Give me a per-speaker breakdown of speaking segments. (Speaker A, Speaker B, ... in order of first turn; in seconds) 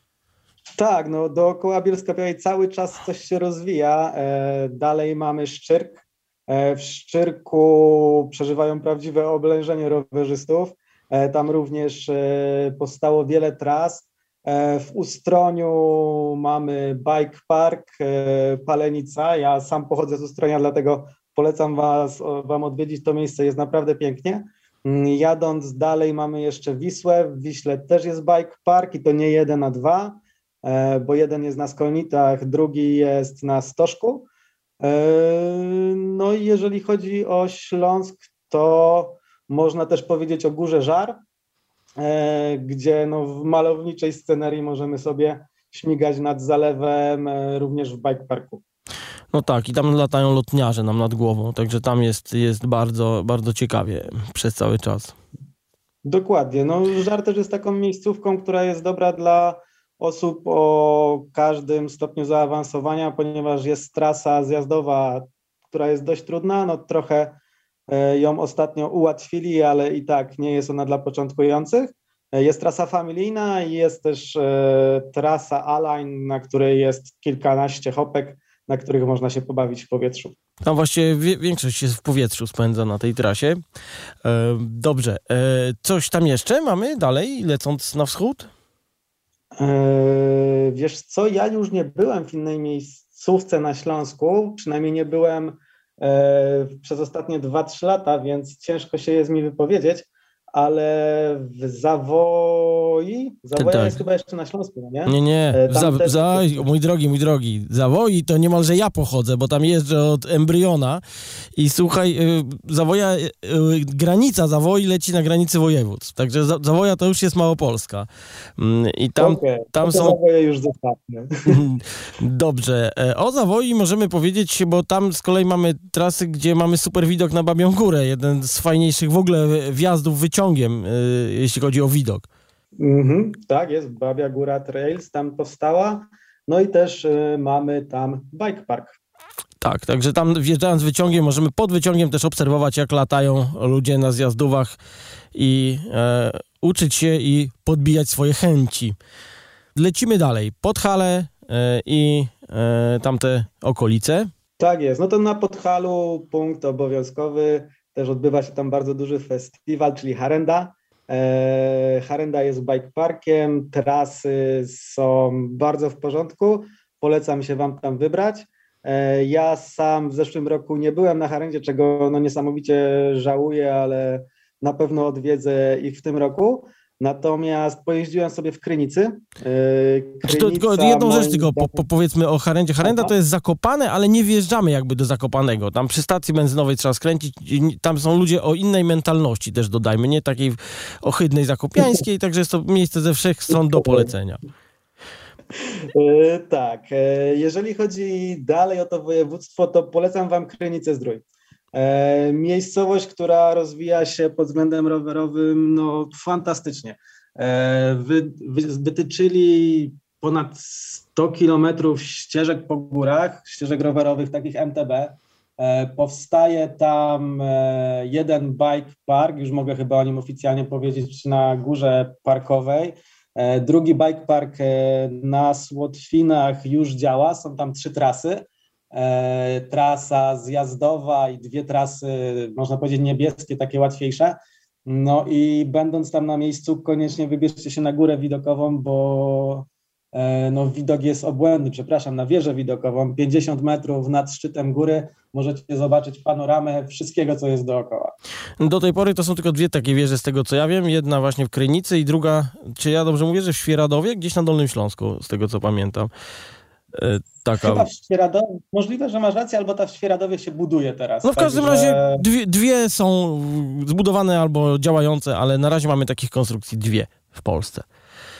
Speaker A: 0.8-34.3, 34.8-41.2, 42.0-48.6, 56.0-67.4, 67.9-80.3, 89.5-106.7, 119.2-121.6, 132.8-139.0, 154.6-181.8, 182.8-183.1, 193.5-194.1, 195.8-248.1, 257.6-262.2
Speaker B: 49.3-55.1, 80.6-83.6, 84.2-88.5, 103.6-104.0, 105.0-111.0, 111.5-120.2, 121.5-132.3, 139.6-144.8, 145.3-148.9, 149.7-154.3, 180.2-194.4, 248.6-256.1, 256.9-257.9, 261.2-267.8